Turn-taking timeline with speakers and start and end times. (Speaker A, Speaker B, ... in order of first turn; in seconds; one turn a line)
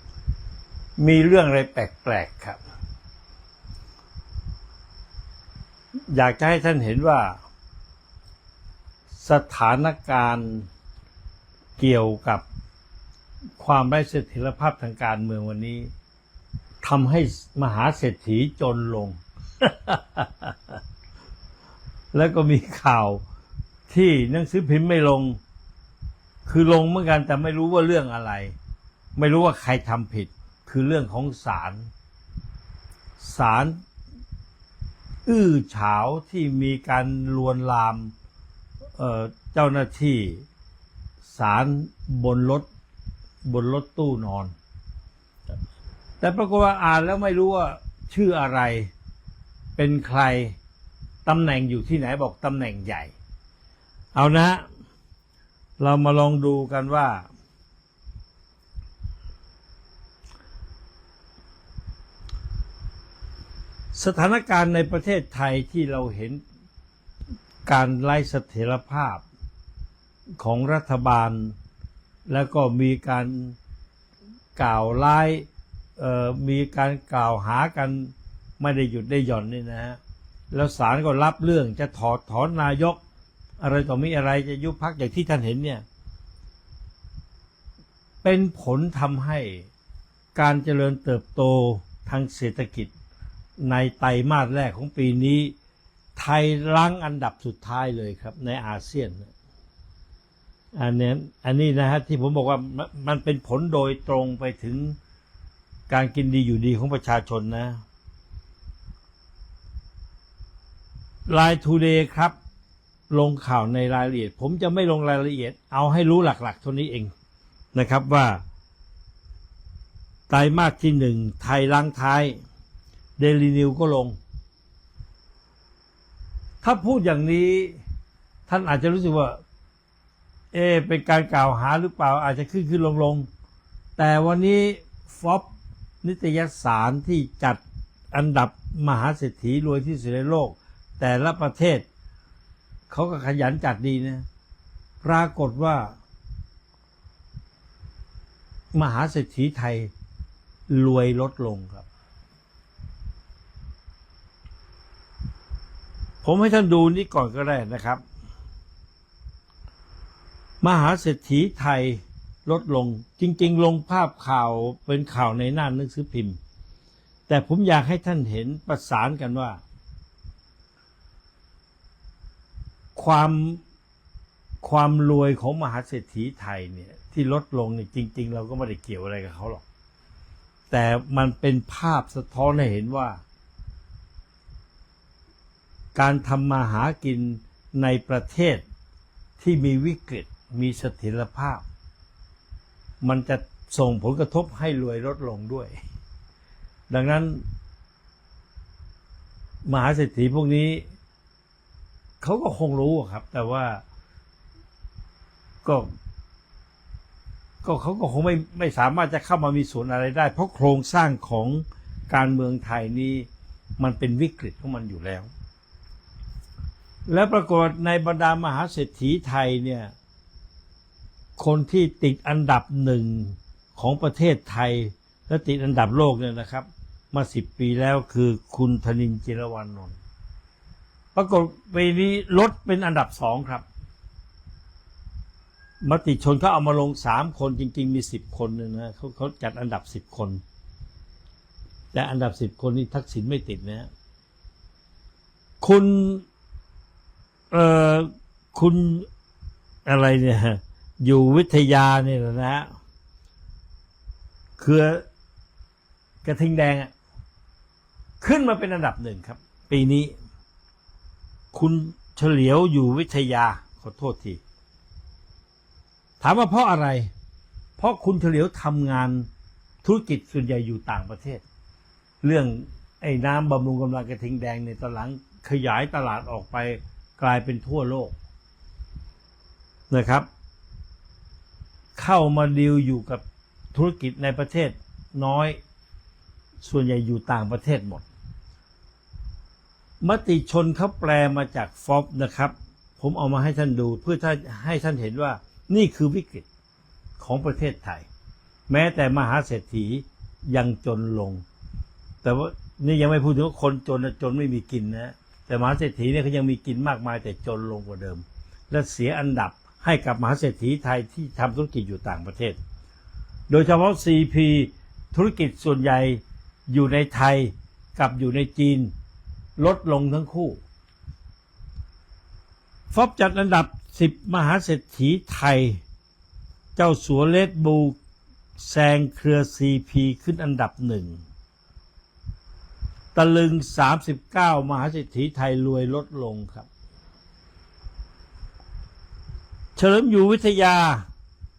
Speaker A: 1.0-2.6
Speaker A: 6.1-7.4
Speaker A: 9.1-10.7
Speaker A: 11.8-12.4
Speaker A: 13.6-15.9
Speaker A: 16.8-20.8
Speaker A: 22.1-23.2
Speaker A: 23.9-25.4
Speaker A: 26.5-28.6
Speaker A: 29.2-31.9
Speaker A: 33.2-33.8
Speaker A: 35.3-38.1
Speaker A: 39.0-40.5
Speaker A: 41.3-42.7
Speaker A: 43.5-44.5
Speaker A: 46.2-48.9
Speaker A: 49.8-50.6
Speaker A: 51.3-53.1
Speaker A: 54.1-54.6
Speaker A: 55.8-57.3
Speaker A: 63.9-66.4
Speaker A: 67.7-69.2
Speaker A: 70.4-71.5
Speaker A: 72.3-73.6
Speaker A: 74.6-75.5
Speaker A: 76.0-80.0
Speaker A: 80.5-83.0
Speaker A: 83.6-85.8
Speaker A: 88.2-89.7
Speaker A: 90.3-92.9
Speaker A: 93.6-95.5
Speaker A: 96.2-99.3
Speaker A: 100.8-105.0
Speaker A: 105.9-107.8
Speaker A: 111.3-112.3
Speaker A: 113.1-117.1
Speaker A: 117.7-118.4
Speaker A: 120.3-122.4
Speaker A: 123.2-124.2
Speaker A: 126.6-127.8
Speaker A: 128.5-129.4
Speaker A: 130.5-133.3
Speaker A: 134.0-135.5
Speaker A: 136.0-137.6
Speaker A: 138.1-141.9
Speaker A: 142.9-144.3
Speaker A: 145.0-146.0
Speaker A: 148.7-149.9
Speaker A: 150.7-151.9
Speaker A: 156.2-158.0
Speaker A: 160.6-166.4
Speaker A: 167.3-169.6
Speaker A: 173.0-173.6
Speaker A: 174.6-179.6
Speaker A: 180.7-183.2
Speaker A: 185.9-188.6
Speaker A: 189.4-191.7
Speaker A: 193.0-195.8
Speaker A: 196.9-197.4
Speaker A: 199.7-200.9
Speaker A: 202.2-203.8
Speaker A: 205.6-205.9
Speaker A: 207.6-213.3
Speaker A: 213.8-215.3
Speaker A: 217.1-219.9
Speaker A: 221.4-230.0
Speaker A: 231.2-233.7
Speaker A: 235.8-240.4
Speaker A: 241.9-243.9
Speaker A: 245.6-246.2
Speaker A: 247.5-249.1
Speaker A: 249.9-252.7
Speaker A: 254.6-255.0
Speaker A: 256.2-256.9
Speaker A: 258.2-260.1
Speaker A: 261.5-264.4
Speaker A: 266.2-267.1
Speaker A: 267.8-269.3
Speaker A: 269.8-271.4
Speaker A: 272.2-278.2
Speaker A: 279.9-280.3
Speaker A: 282.0-283.2
Speaker A: 283.7-285.6
Speaker A: 286.6-288.1
Speaker A: 290.0-296.5
Speaker A: 297.2-298.1
Speaker A: 298.7-301.4
Speaker A: 302.2-312.6
Speaker A: 313.5-318.9
Speaker A: 319.6-320.6
Speaker A: 322.9-325.8
Speaker A: 326.8-328.0
Speaker A: 328.6-331.2
Speaker A: 333.1-336.7
Speaker A: 339.8-341.1